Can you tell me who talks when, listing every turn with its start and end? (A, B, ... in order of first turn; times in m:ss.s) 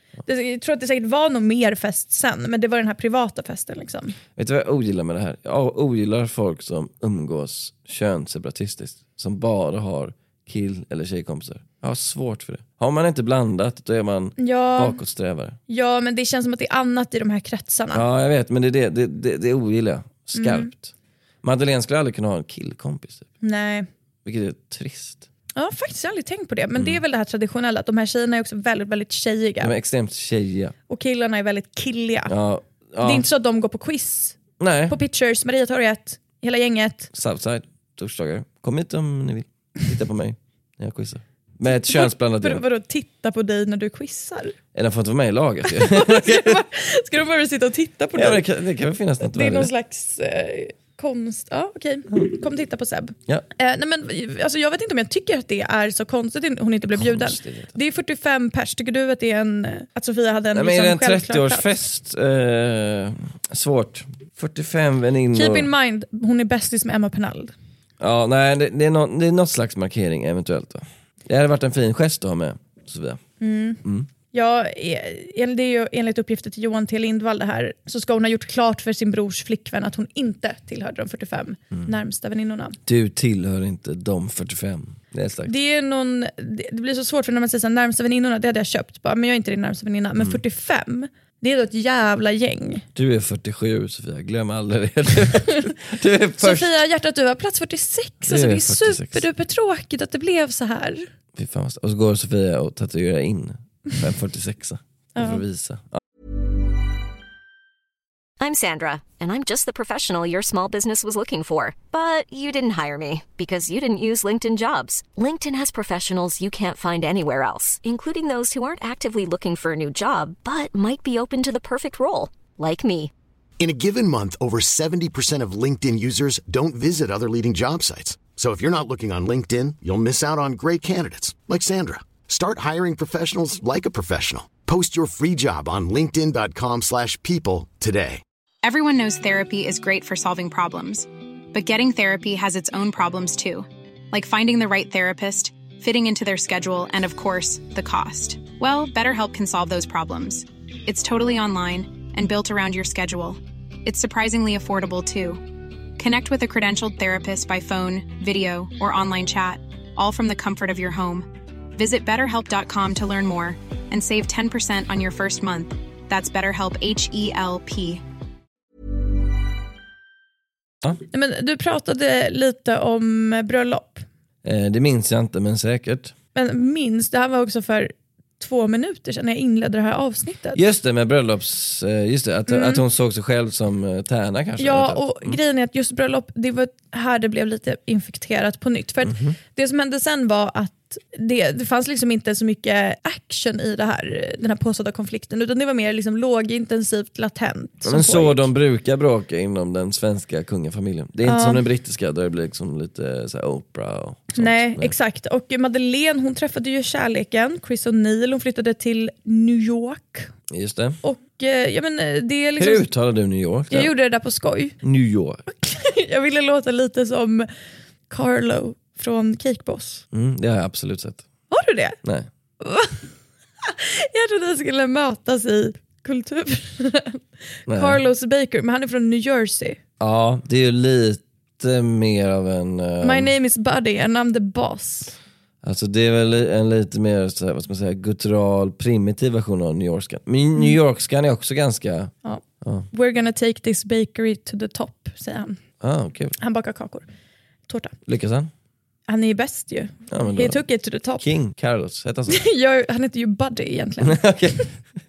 0:00.2-0:04.2 A
0:04.4-0:15.6 B
0:14.4-0:15.0 A
0:15.7-0:18.0 A
0:17.9-0:23.3 B
0:20.3-0:20.7 A
0:23.4-0:23.9 A
0:24.2-0:25.2 B
0:25.5-0:29.7 A
0:29.6-0:30.7 B
0:30.9-0:32.3 A
0:32.3-0:33.2 B
0:33.0-0:37.1 A
0:34.6-0:35.0 B
0:37.1-0:42.6 B
0:41.7-0:44.5 A
0:44.7-0:46.6 B
0:45.6-0:48.4 A
0:48.1-0:49.7 B
0:49.2-1:01.8 A
0:56.9-0:57.7 B
1:00.5-1:05.7 B
1:05.3-1:07.5 A
1:08.0-1:13.2 B
1:13.4-1:13.8 A
1:14.3-1:22.8 A
1:22.8-1:25.5 B
1:25.4-1:32.8 A
1:32.9-1:36.8 B
1:36.4-1:41.1 A
1:38.2-1:39.2 B
1:41.3-1:46.0 B
1:45.2-1:45.4 A
1:48.4-2:03.1 C
2:03.6-2:18.2 D
2:18.6-2:35.4 E
2:36.0-2:48.0 E
2:51.1-2:54.0 A
2:54.4-2:56.1 B
2:56.3-3:00.6 A
3:00.5-3:05.4 B
3:02.5-3:02.8 A
3:04.6-3:18.5 A
3:09.0-3:09.4 B
3:17.8-3:24.9 B
3:21.2-3:21.6 A
3:24.3-3:30.3 A
3:30.5-3:31.0 B
3:31.0-3:32.9 A
3:32.6-3:33.9 B
3:33.7-3:34.8 A
3:34.8-3:35.4 B
3:35.5-3:37.5 A
3:38.1-3:40.0 A
3:40.1-3:41.2 B
3:41.5-3:42.0 A
3:42.0-3:42.3 B
3:42.6-3:43.1 A
3:43.6-3:49.8 A
3:47.7-3:48.0 B
3:50.0-3:53.3 B
3:53.0-3:55.2 A
3:55.6-4:02.9 B
4:02.2-4:05.6 A
4:05.8-4:06.4 B
4:06.4-4:07.1 A
4:07.7-4:07.9 A
4:08.0-4:08.5 B
4:09.1-4:11.2 A
4:10.1-4:10.6 B
4:11.2-4:12.4 B
4:12.3-4:14.6 A
4:14.0-4:14.7 B